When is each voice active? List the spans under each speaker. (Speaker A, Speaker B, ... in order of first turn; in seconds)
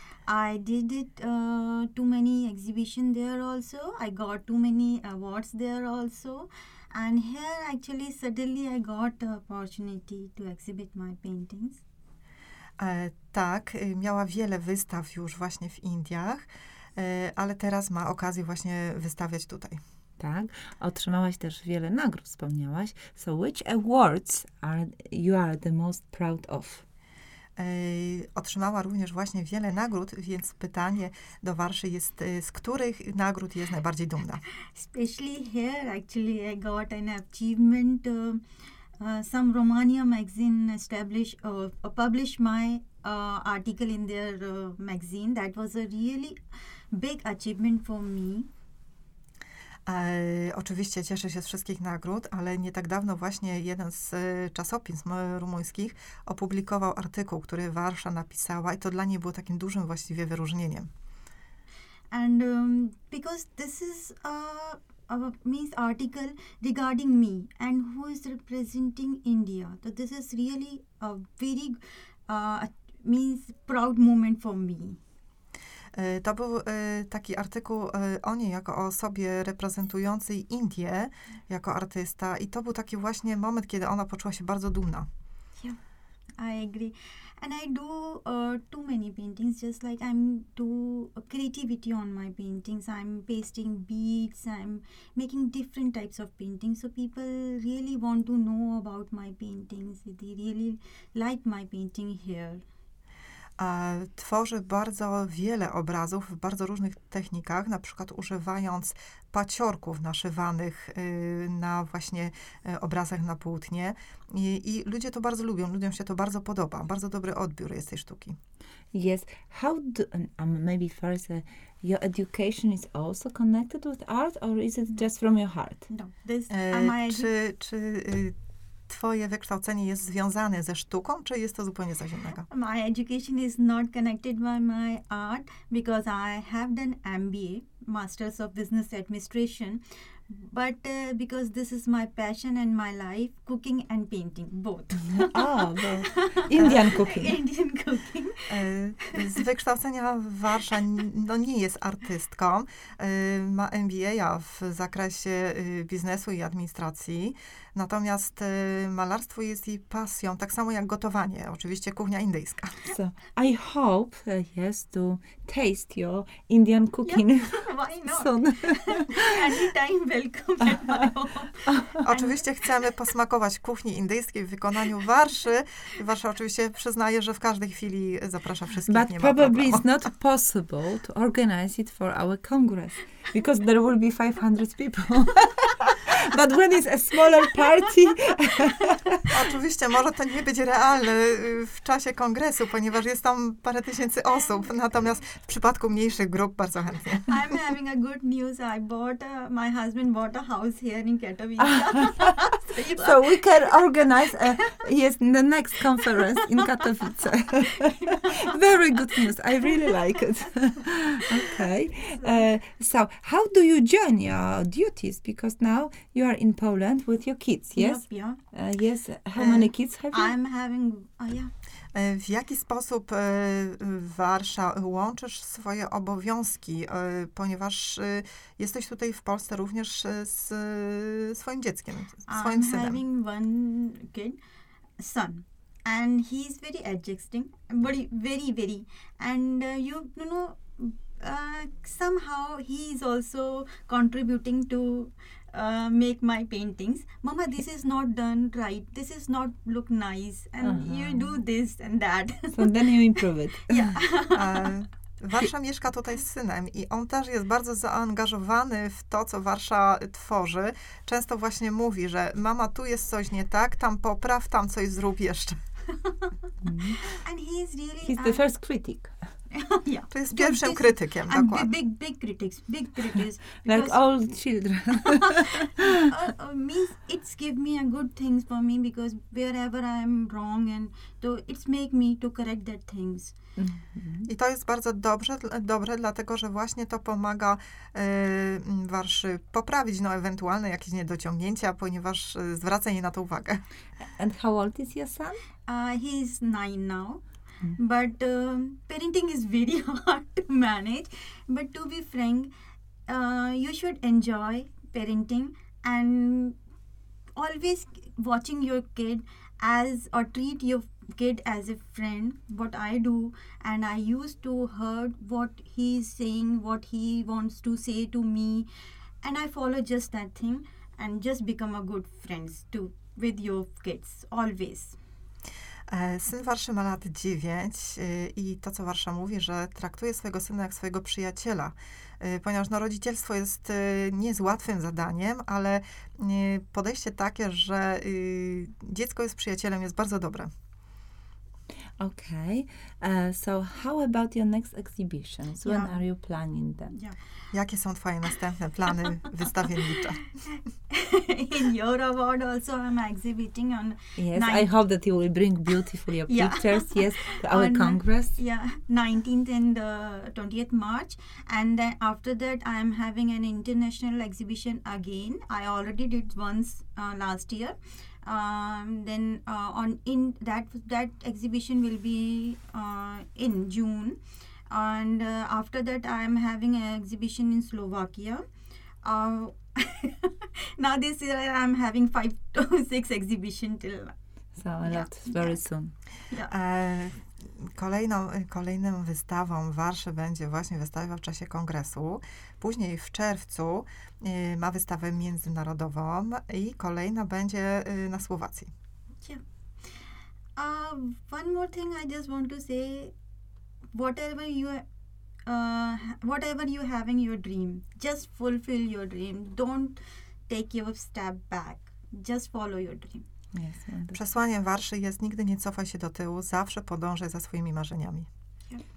Speaker A: 0.2-11.8, 34.7-38.4, 39.0-46.4, 46.9-48.5, 62.1-75.0, 86.4-102.6, 125.9-127.3, 132.4-149.4, 167.0-172.4, 197.3-203.6, 204.3-204.6, 207.9-208.5, 212.1-212.4, 217.7-218.4, 220.1-221.5, 232.3-234.4, 235.0-253.0, 253.6-254.7, 267.1-268.4, 269.5-274.0, 275.0-283.4, 295.7-297.2, 297.8-302.5, 303.1-306.6, 307.3-318.7, 319.2-325.0, 345.6-346.0, 346.9-347.2, 350.9-354.8, 356.3-378.4, 379.0-384.1, 384.8-385.6, 400.6-403.1, 403.9-404.8, 405.4-413.2
Speaker B: 12.8-19.8, 27.6-34.4, 49.9-60.9, 75.9-85.1, 103.6-118.3, 126.5-128.3, 128.9-132.4, 146.6-146.8, 148.5-162.8, 172.0-179.8, 189.3-197.4, 219.3-219.7, 221.9-233.0, 254.3-265.6, 270.1-271.7, 284.3-293.6, 325.9-340.5, 347.5-350.2, 386.4-398.7, 414.1-418.3
Speaker C: 20.2-26.8, 118.9-125.8, 145.1-147.4, 162.8-169.4, 171.7-172.0, 178.9-189.3, 201.6-202.4, 202.9-220.3, 250.6-251.4, 252.5-254.0, 266.6-267.0, 268.0-269.1, 273.6-276.1, 283.6-284.3, 294.2-295.4, 342.0-346.9, 354.2-358.4, 384.6-385.9, 413.5-414.2